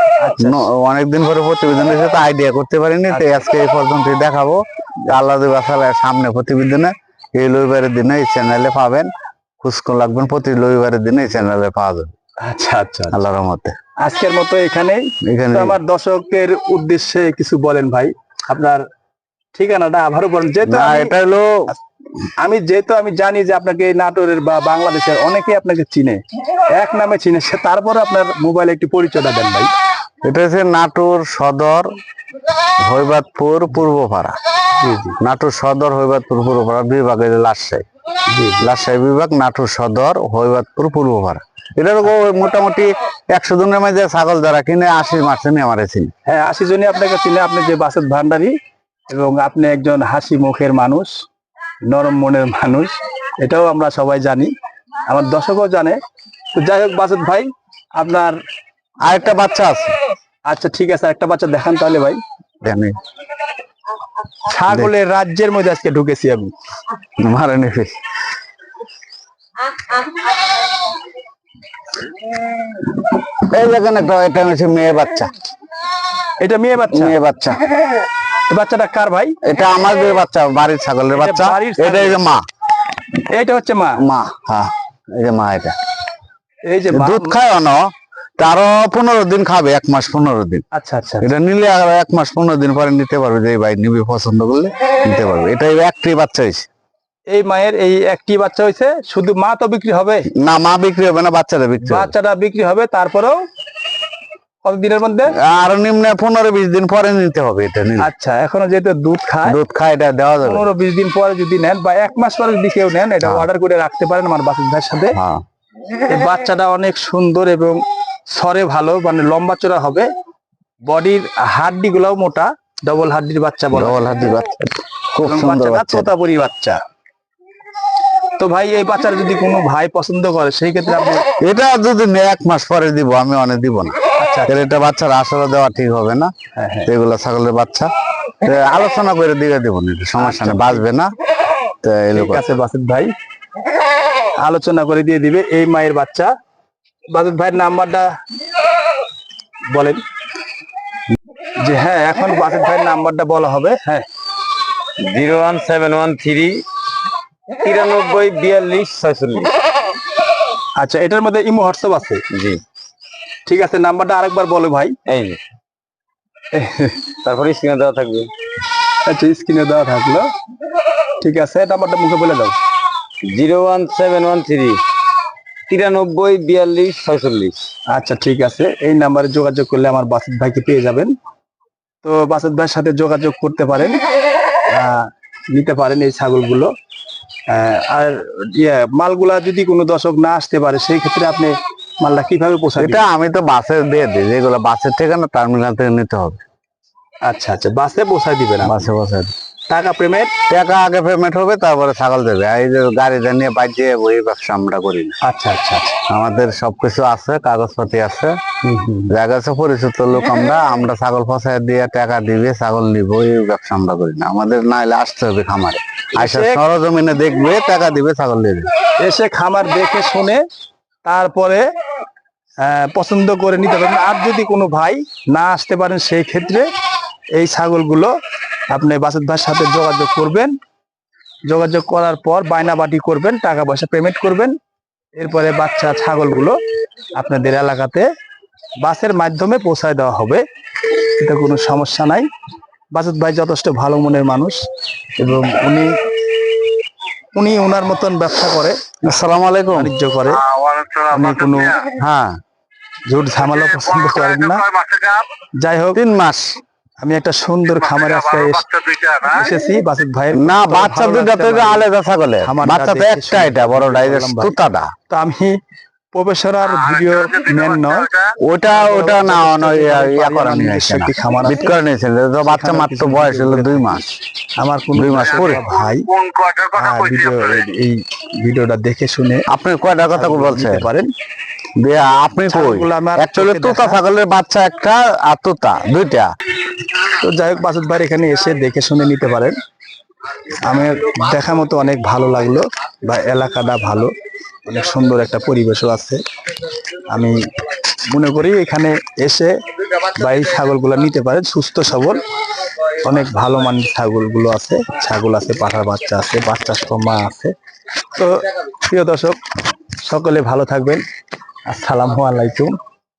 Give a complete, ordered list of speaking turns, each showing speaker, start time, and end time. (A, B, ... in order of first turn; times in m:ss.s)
0:00.2-0:00.6 A
0:00.4-0:09.1 B
0:09.6-0:12.1 B
0:12.4-0:13.2 A
0:13.1-0:13.8 B
0:14.0-0:18.8 A
0:15.2-0:15.8 B
0:19.5-0:21.1 A
0:20.6-0:21.7 B
0:22.4-0:29.7 A
0:30.2-0:31.9 B
0:32.8-0:34.4 B
0:34.8-0:35.2 A
0:35.2-0:37.8 B
0:38.3-0:38.7 A
0:38.6-0:46.1 B
0:46.2-0:48.5 A
0:49.1-0:51.1 A
0:51.9-0:54.5 A
0:55.1-0:56.0 A
0:56.5-0:58.4 A
0:59.0-0:59.9 B
1:00.5-1:02.2 A
1:02.6-1:03.0 B
1:04.4-1:06.5 A
1:07.2-1:08.0 B
1:13.2-1:15.3 B
1:16.4-1:17.2 A
1:16.9-1:17.6 B
1:18.5-1:19.4 A
1:19.4-1:22.4 B
1:21.1-1:22.2 A
1:23.3-1:24.0 A
1:24.0-1:25.8 B
1:26.6-1:27.3 A
1:26.9-1:30.6 B
1:30.7-1:31.3 A
1:31.2-1:36.7 B
1:37.3-1:40.3 A
1:40.4-1:42.1 B
1:41.8-1:43.4 A
1:44.6-1:45.4 A
1:45.4-1:48.1 B
1:48.0-1:49.6 A
1:49.4-1:50.6 B
1:50.4-1:55.2 A
1:55.1-1:55.4 B
1:56.0-2:00.1 A
2:00.8-2:04.2 A
2:03.7-2:06.1 B
2:05.2-2:06.8 A
2:08.4-2:11.2 A
2:11.4-2:14.0 B
2:14.2-2:14.6 A
2:14.5-2:16.3 B
2:16.5-2:16.9 A
2:16.9-2:17.9 B
2:18.4-2:21.1 B
2:20.2-2:20.8 A
2:21.8-2:22.4 B
2:22.1-2:23.1 A
2:24.4-2:26.3 A
2:27.1-2:28.1 A
2:29.7-2:30.0 A
2:31.6-2:34.0 A
2:35.0-2:36.6 C
2:37.6-2:39.5 C
2:40.8-2:42.2 A
2:42.3-2:42.6 C
2:43.4-2:45.0 A
2:45.0-2:45.4 C
2:46.5-2:47.1 A
2:47.2-2:48.3 C
2:49.0-2:50.3 A
2:51.2-2:52.6 A
2:53.2-2:54.8 C
2:55.7-2:57.6 C
2:57.9-3:01.1 A
3:02.0-3:04.0 A
3:04.7-3:06.7 A
3:07.5-3:13.0 A
3:12.8-3:16.4 B
3:17.2-3:18.8 A
3:18.6-3:19.3 B
3:19.7-3:20.3 A
3:20.5-3:25.2 B
3:25.2-3:26.0 A
3:26.1-3:28.4 B
3:28.6-3:29.1 A
3:29.1-3:38.7 B
3:36.2-3:36.6 A
3:39.0-3:40.4 A
3:41.0-3:41.6 A
3:42.6-3:46.7 A
3:47.4-3:48.1 A
3:48.7-3:50.5 A
3:51.5-3:54.6 A
3:55.2-3:56.6 A
3:57.2-3:58.1 A
3:58.8-4:00.4 A
4:01.2-4:02.3 A
4:02.9-4:04.6 A
4:05.2-4:05.9 A
4:07.3-4:08.9 A
4:09.0-4:09.9 B
4:09.7-4:10.4 A
4:11.1-4:11.8 A
4:11.9-4:12.4 B
4:13.1-4:14.7 A
4:15.6-4:16.0 A
4:15.9-4:16.6 B
4:17.0-4:21.8 A
4:20.4-4:24.9 B
4:22.4-4:24.5 A
4:25.1-4:25.6 A
4:26.1-4:28.1 A
4:28.4-4:34.1 B
4:28.7-4:31.8 A
4:32.4-4:34.0 A
4:34.6-4:36.1 A
4:34.9-4:36.6 B
4:36.7-4:39.4 A
4:39.5-4:40.8 B
4:40.1-4:41.1 A
4:41.8-4:46.3 B
4:42.5-4:44.0 A
4:47.0-4:49.6 A
4:50.6-4:54.1 A
4:54.6-4:56.2 A
4:57.1-4:57.4 A
4:58.1-4:59.5 A
5:00.1-5:02.2 A
5:03.0-5:07.5 A
5:08.1-5:09.4 A
5:10.0-5:11.0 A
5:11.7-5:12.8 A